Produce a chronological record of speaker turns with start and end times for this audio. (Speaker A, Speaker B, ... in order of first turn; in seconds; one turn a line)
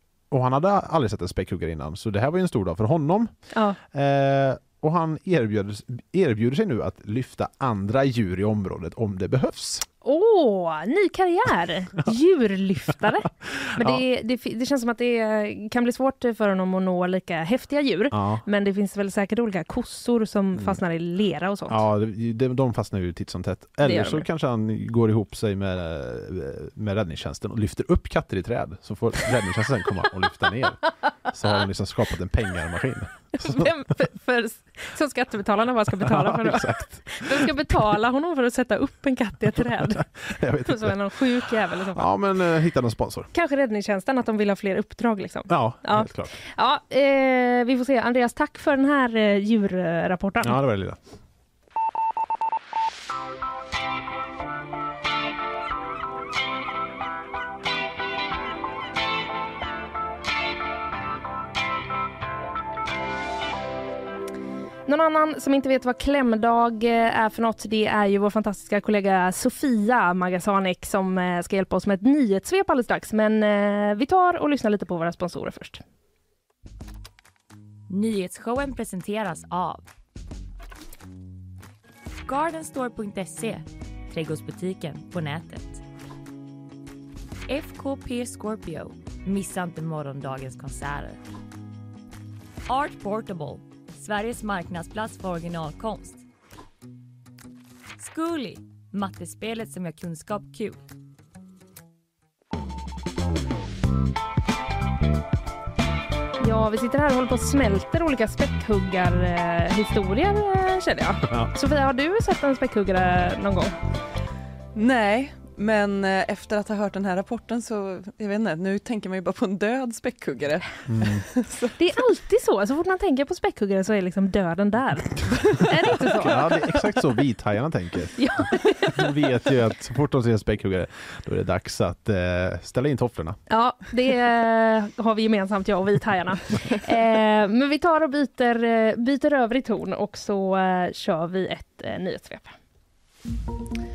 Speaker A: 0.3-3.3
Speaker B: 3.5-3.8
Speaker A: 3.9-9.9
Speaker B: 10.0-21.8
Speaker A: 13.6-14.0
Speaker A: 18.1-18.4
Speaker A: 20.5-20.8
Speaker A: 21.7-33.7
Speaker B: 23.8-24.3
Speaker B: 33.4-40.1
Speaker A: 35.9-37.9
Speaker A: 39.6-41.0
Speaker B: 40.6-42.1
Speaker A: 41.9-43.3
Speaker B: 43.3-50.6
Speaker A: 45.5-46.4
Speaker A: 50.4-51.0
Speaker B: 64.9-75.8
Speaker C: 77.9-79.8
Speaker C: 82.2-85.8
Speaker C: 87.5-91.2
Speaker C: 92.7-96.2
Speaker C: 98.0-100.8
Speaker B: 106.4-113.8
Speaker D: 114.8-121.7
Speaker A: 120.9-121.3
Speaker B: 121.8-126.5
Speaker A: 126.0-133.4
Speaker B: 128.2-129.1
Speaker B: 133.5-142.6